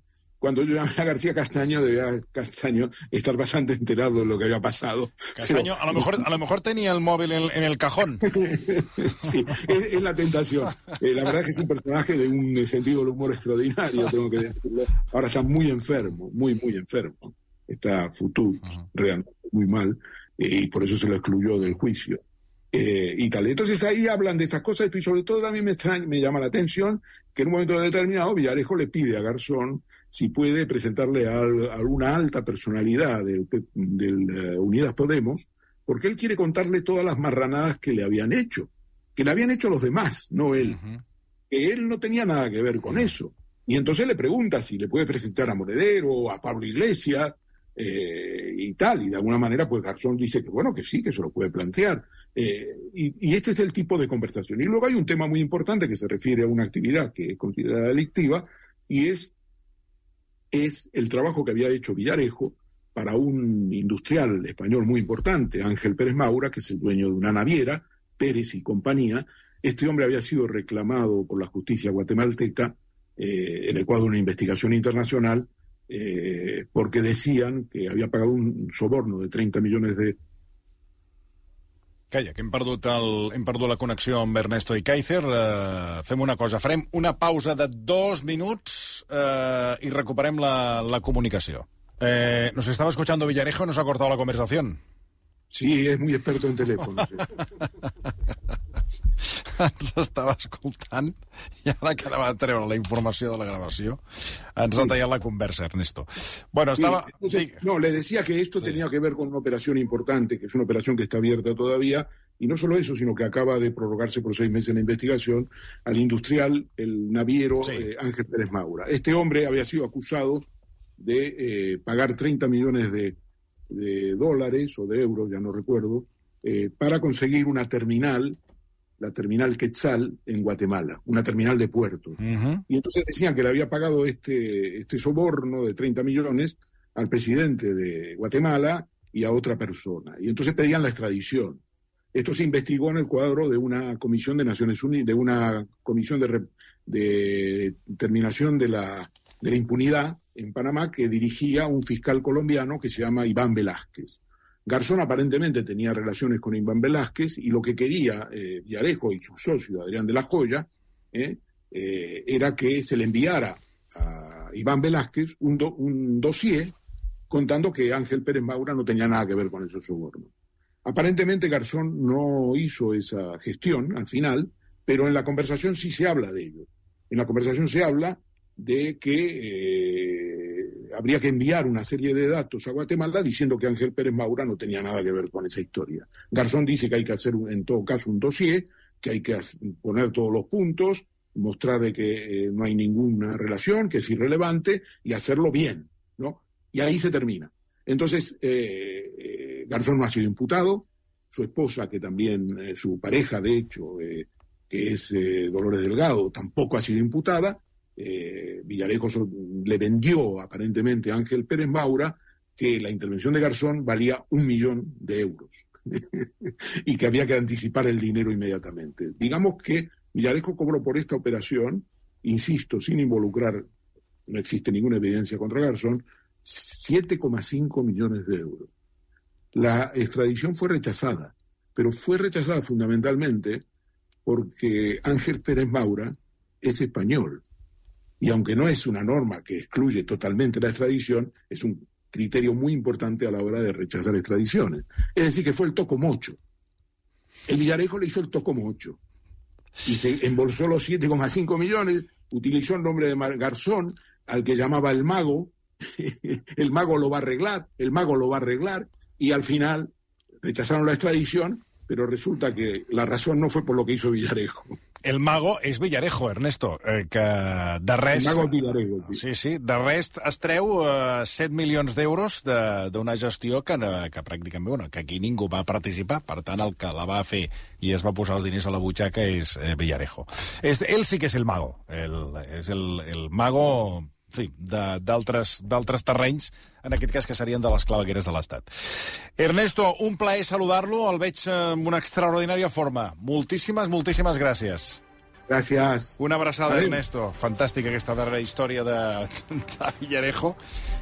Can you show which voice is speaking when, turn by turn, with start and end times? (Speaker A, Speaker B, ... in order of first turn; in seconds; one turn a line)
Speaker A: 0.4-6.1
Speaker B: 5.4-8.3
Speaker A: 8.3-22.2
Speaker A: 22.7-40.8
Speaker B: 40.6-41.0
Speaker A: 41.5-59.3
Speaker A: 60.5-80.2
Speaker B: 82.1-94.8
Speaker A: 95.5-97.3
Speaker B: 99.4-104.0
Speaker B: 104.5-107.6
Speaker A: 106.8-120.5
Speaker A: 121.0-123.2
Speaker A: 123.7-128.4
Speaker A: 129.0-141.6
Speaker B: 132.2-132.6
Speaker A: 142.1-166.8
Speaker A: 167.3-170.3
Speaker A: 170.8-223.7
Speaker A: 224.3-228.7
Speaker A: 229.5-233.6
Speaker A: 234.2-237.4
Speaker A: 238.2-246.4
Speaker A: 247.5-249.0
Speaker A: 249.8-264.8
Speaker B: 265.0-268.5
Speaker A: 268.1-269.2
Speaker B: 269.1-288.7
Speaker B: 289.4-295.0
Speaker A: 295.5-297.0
Speaker B: 296.2-300.6